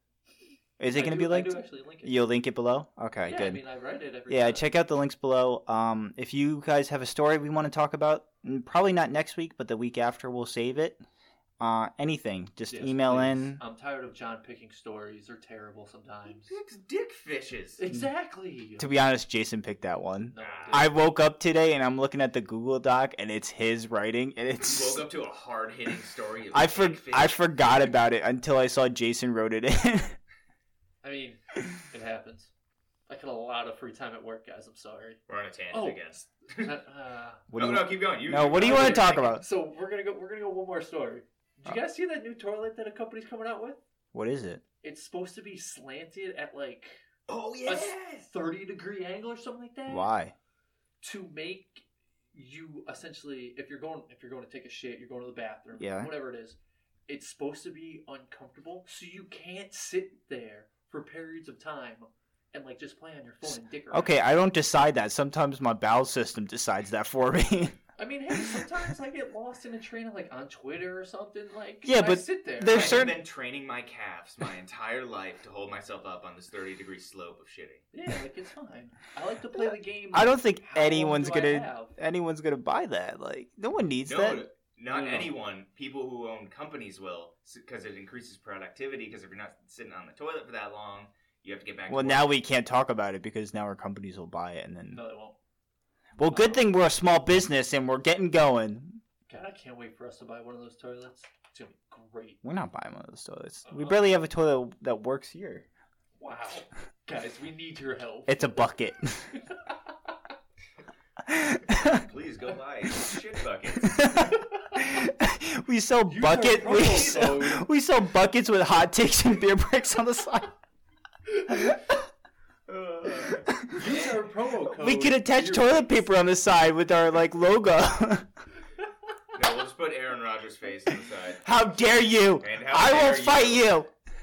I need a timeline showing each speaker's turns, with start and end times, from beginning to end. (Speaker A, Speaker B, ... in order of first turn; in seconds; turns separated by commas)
Speaker A: 0.8-3.6, Speaker B: 0.9-2.3, Speaker B: 3.3-4.7, Speaker A: 4.3-11.0, Speaker A: 11.6-13.6, Speaker B: 12.7-16.5, Speaker C: 16.3-17.8, Speaker B: 17.8-18.9, Speaker A: 18.8-25.1, Speaker B: 20.3-20.9, Speaker C: 20.4-20.9, Speaker C: 24.7-27.5, Speaker A: 26.5-30.2, Speaker B: 31.0-32.5, Speaker B: 33.1-35.2, Speaker C: 35.3-36.7, Speaker B: 35.7-37.5, Speaker A: 37.5-39.4, Speaker C: 37.5-39.1, Speaker B: 38.5-43.8, Speaker A: 44.1-44.6, Speaker B: 44.8-47.0, Speaker C: 47.3-48.3, Speaker B: 47.7-50.1, Speaker A: 49.9-50.4, Speaker B: 51.0-64.2, Speaker A: 55.8-56.1, Speaker A: 63.4-67.8, Speaker B: 68.0-73.1, Speaker A: 68.3-68.6, Speaker A: 71.8-73.2, Speaker C: 72.7-77.8, Speaker B: 77.9-82.0, Speaker A: 79.6-84.5, Speaker C: 84.0-92.4, Speaker B: 84.9-85.3, Speaker A: 91.9-95.0, Speaker B: 94.9-95.4, Speaker A: 96.2-99.0, Speaker B: 96.3-96.6, Speaker B: 99.3-102.4, Speaker A: 102.4-105.7, Speaker B: 103.7-104.2, Speaker B: 106.2-108.7, Speaker A: 108.3-109.3, Speaker A: 111.3-112.0, Speaker C: 111.7-114.2, Speaker A: 113.9-120.5, Speaker B: 116.1-117.7, Speaker A: 121.5-121.8, Speaker C: 122.7-124.2, Speaker A: 123.4-123.8, Speaker B: 123.7-126.0, Speaker A: 124.6-128.3, Speaker C: 129.3-131.4, Speaker A: 131.4-133.9, Speaker C: 132.4-133.7